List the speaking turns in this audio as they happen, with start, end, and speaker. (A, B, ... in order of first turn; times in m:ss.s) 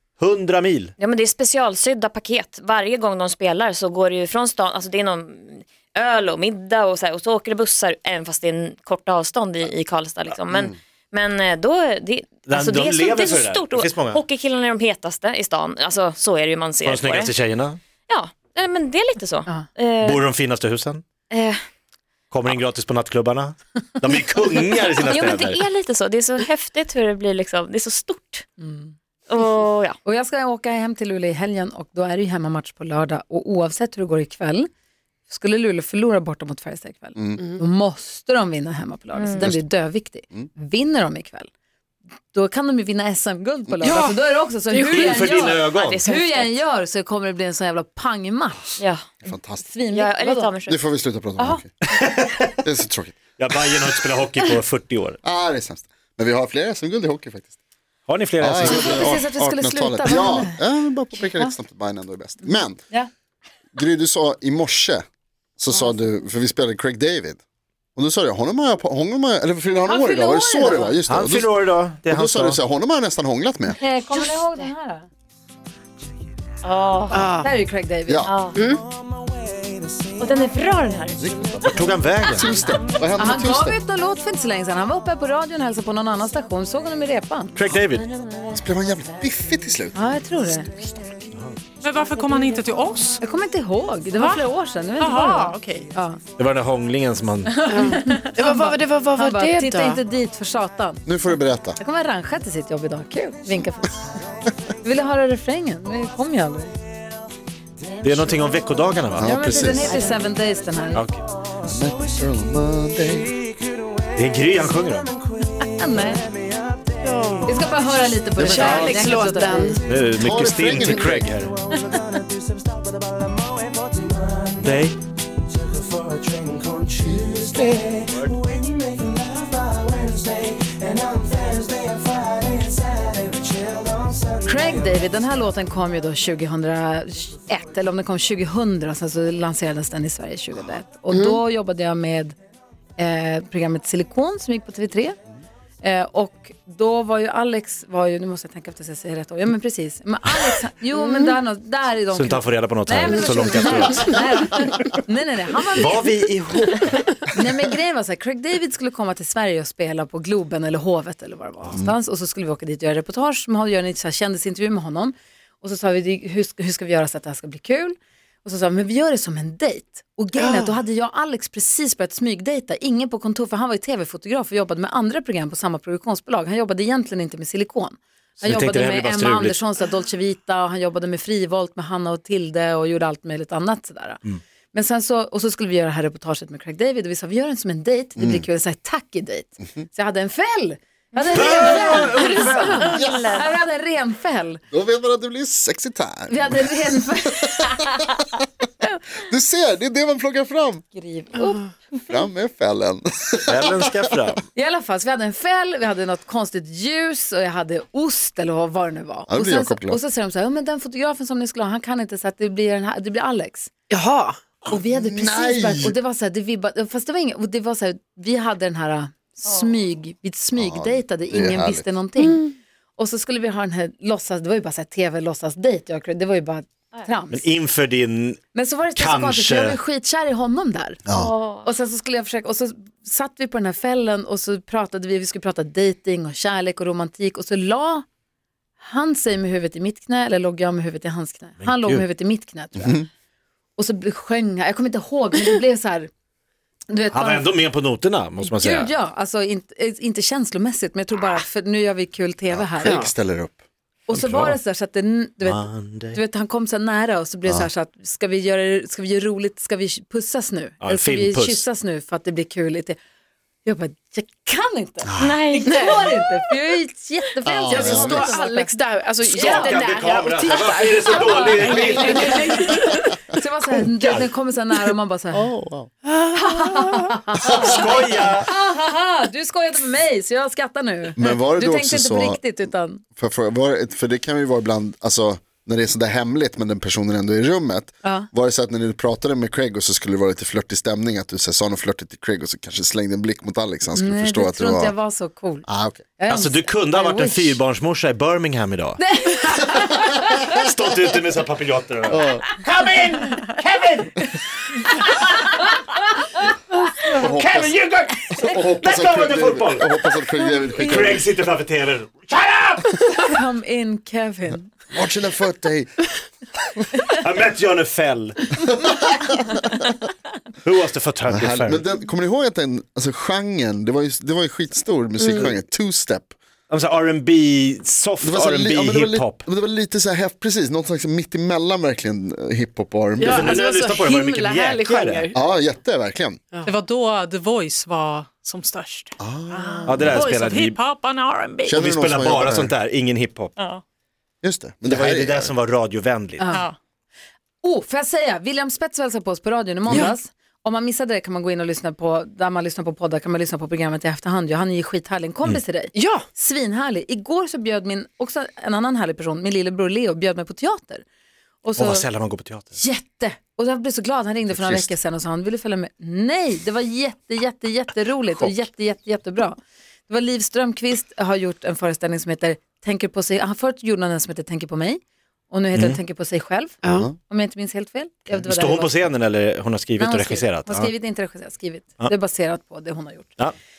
0:00.2-0:00.9 A
0:01.0-0:17.3 B
0:12.5-0:14.2 A
0:16.8-0:17.8 A
0:18.1-0:20.2 B
0:20.0-0:21.0 A
0:21.3-0:21.6 B
0:22.3-0:25.6 A
0:24.9-0:28.5 B
0:28.6-0:29.5 C
0:29.3-0:30.0 B
0:30.0-0:34.7 C
0:35.3-0:41.5 C
0:37.2-0:37.4 D
0:39.1-0:39.5 B
0:42.3-0:50.5 C
0:43.8-0:44.2 E
0:44.7-0:45.5 E
0:45.0-0:46.0 A
0:45.6-0:46.5 B
0:49.2-0:49.6 D
0:49.9-0:50.8 B
0:50.7-0:51.7 D
0:52.0-0:52.5 A
0:52.6-0:53.3 D
0:53.4-0:55.2 A
0:55.2-0:57.5 D
0:58.1-0:59.2 A
0:58.4-1:02.8 D
0:58.6-1:00.6 C
1:02.4-1:03.1 C
1:03.7-1:05.0 D
1:05.6-1:07.4 D
1:08.0-1:11.5 D
1:09.8-1:11.0 C
1:11.1-1:12.6 A
1:12.1-1:13.8 D
1:13.7-1:15.1 C
1:14.1-1:14.6 B
1:16.6-1:17.3 B
1:17.1-1:17.5 E
1:17.2-1:18.3 C
1:18.1-1:18.4 D
1:18.2-1:18.6 B
1:18.5-1:18.8 E
1:20.2-1:21.2 B
1:21.2-1:21.6 D
1:21.6-1:22.5 A
1:22.3-1:23.8 D
1:22.3-1:23.3 B
1:23.2-1:27.6 C
1:27.6-1:28.1 A
1:28.5-1:30.2 D
1:29.9-1:30.7 C
1:31.8-1:33.2 F
1:33.2-1:36.2 C
1:34.2-1:34.4 F
1:35.0-1:35.9 F
1:36.4-1:37.6 A
1:37.4-1:41.0 C
1:37.7-1:40.0 E
1:41.0-1:41.8 D
1:41.8-1:44.2 C
1:44.8-1:46.7 C
1:48.0-1:49.3 A
1:49.2-1:50.0 D
1:49.2-1:51.0 C
1:50.9-1:51.2 A
1:51.6-1:53.4 D
1:54.2-1:55.1 A
1:55.4-1:56.3 C
1:57.0-1:57.6 E
1:57.4-1:59.8 C
1:58.4-1:59.1 D
1:58.4-1:59.9 E
1:59.8-2:01.5 A
2:00.2-2:01.3 D
2:04.6-2:05.0 A
2:14.4-2:22.3 C
2:21.1-2:21.4 E
2:23.0-2:25.2 C
2:25.8-2:36.1 C
2:30.9-2:31.3 E
2:32.1-2:34.2 A
2:33.1-2:34.7 E
2:35.8-2:36.9 A
2:37.3-3:14.6 C
2:50.4-2:50.7 E
2:58.4-2:59.6 A
3:08.2-3:08.4 D
3:11.2-3:13.6 B
3:11.3-3:13.0 A
3:13.0-3:13.2 D
3:14.7-3:17.7 D
3:16.3-3:18.2 C
3:19.2-3:20.8 D
3:20.9-3:21.7 C
3:22.1-3:24.2 D
3:23.5-3:24.4 A
3:24.5-3:33.7 C
3:29.3-3:30.0 D
3:33.9-3:34.4 E
3:34.7-3:42.4 C
3:34.7-3:36.0 D
3:40.5-3:41.9 D
3:42.2-3:42.5 E
3:43.0-3:47.4 C
3:47.3-3:48.4 A
3:48.5-3:51.0 C
3:48.9-3:49.8 A
3:51.0-3:51.3 D
3:51.1-3:51.7 B
3:51.6-3:58.0 C
3:58.8-4:03.0 C
4:01.6-4:02.0 A
4:02.8-4:03.0 D
4:03.8-4:06.1 C
4:06.9-4:07.6 C
4:07.1-4:08.9 A
4:08.4-4:13.0 C
4:12.5-4:13.6 D
4:12.8-4:13.1 E
4:14.1-4:23.0 C
4:14.1-4:14.6 A
4:15.4-4:16.2 A
4:20.8-4:21.6 A
4:23.6-4:28.7 C
4:25.0-4:25.4 D
4:25.2-4:25.9 B
4:25.7-4:26.1 E
4:27.6-4:28.3 D
4:27.7-4:33.2 E
4:27.7-4:28.2 A
4:29.3-4:29.8 C
4:29.3-4:32.8 A
4:31.0-4:32.8 C
4:33.3-4:35.5 C
4:35.3-4:35.9 D
4:36.0-4:37.2 E
4:36.3-4:43.0 C
4:37.4-4:38.5 A
4:41.2-4:42.4 D
4:43.2-4:54.9 D
4:48.0-4:48.3 C
4:53.9-4:55.6 C
4:55.7-4:56.0 D
4:56.2-4:57.6 C
4:56.3-4:59.0 A
4:59.0-5:00.4 C
5:00.4-5:04.3 A
5:02.1-5:02.5 D
5:05.0-5:05.6 A
5:07.1-5:10.1 A
5:07.1-5:07.8 D
5:08.4-5:11.2 D
5:10.8-5:13.4 A
5:13.2-5:14.7 C
5:14.9-5:16.0 D
5:17.1-5:18.5 A
5:18.7-5:19.3 D
5:20.6-5:21.8 A
5:21.3-5:26.3 D
5:25.2-5:25.5 E
5:26.7-5:29.4 A
5:28.2-5:33.6 D
5:33.2-5:35.4 E
5:33.2-5:35.3 A
5:35.3-5:36.4 D
5:36.6-5:41.8 F
5:39.2-5:40.3 D
5:39.9-5:40.8 A
5:41.6-5:42.7 D
5:41.8-5:43.5 A
5:43.6-5:43.8 F
5:44.4-5:45.5 D
5:44.9-5:46.5 A
5:46.4-5:46.7 C
5:46.5-5:46.8 F
5:47.6-6:01.0 C
5:55.9-5:56.2 E
6:01.6-6:02.1 C
6:01.8-6:02.8 A
6:02.8-6:19.1 C
6:04.4-6:04.9 D
6:15.7-6:16.0 A
6:16.8-6:17.1 D
6:18.5-6:20.9 A
6:20.0-6:23.4 C